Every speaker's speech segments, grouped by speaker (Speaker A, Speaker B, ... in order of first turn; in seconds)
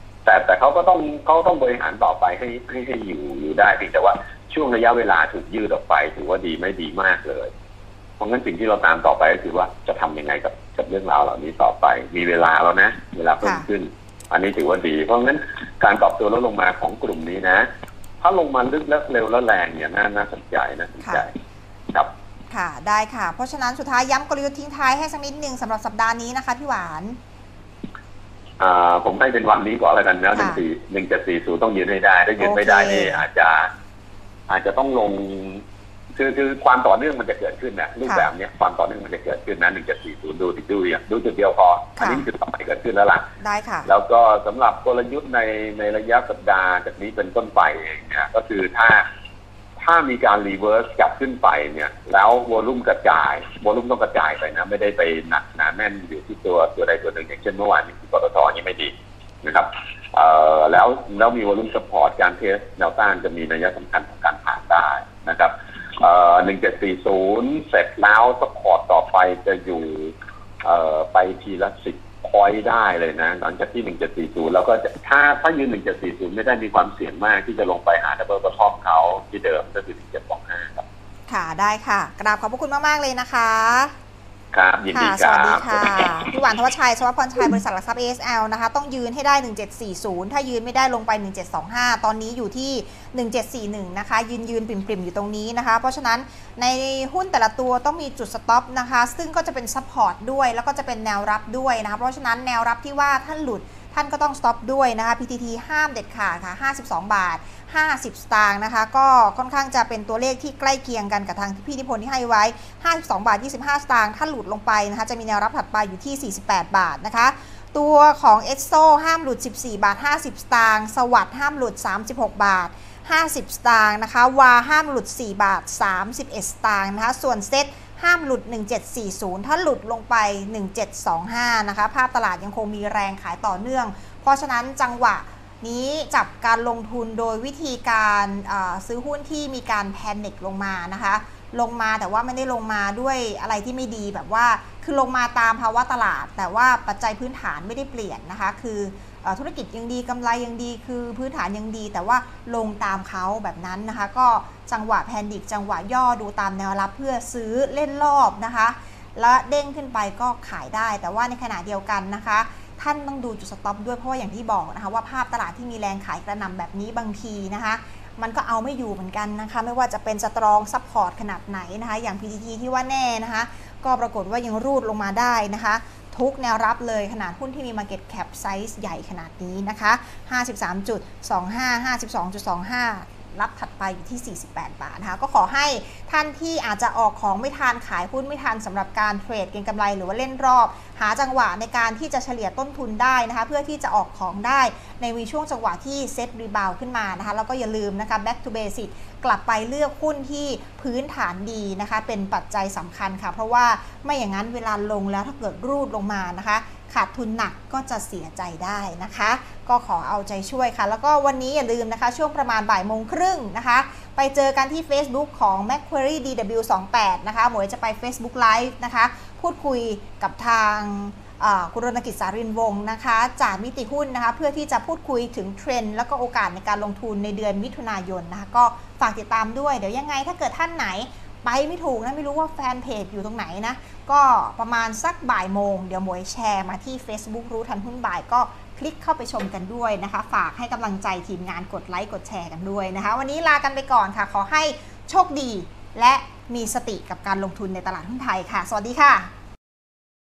Speaker A: 0.2-7.5, 8.2-17.6, 18.2-21.2, 28.6-33.7, 34.5-35.6, 36.2-43.2, 43.9-49.0, 49.8-58.9, 59.4-65.5, 66.0-70.1, 70.6-80.8, 84.5-85.7
Speaker B: 22.5-27.2, 30.3-30.6, 32.4-33.2, 38.0-38.3, 42.0-42.2, 43.4-43.9, 81.3-83.9, 84.9-249.3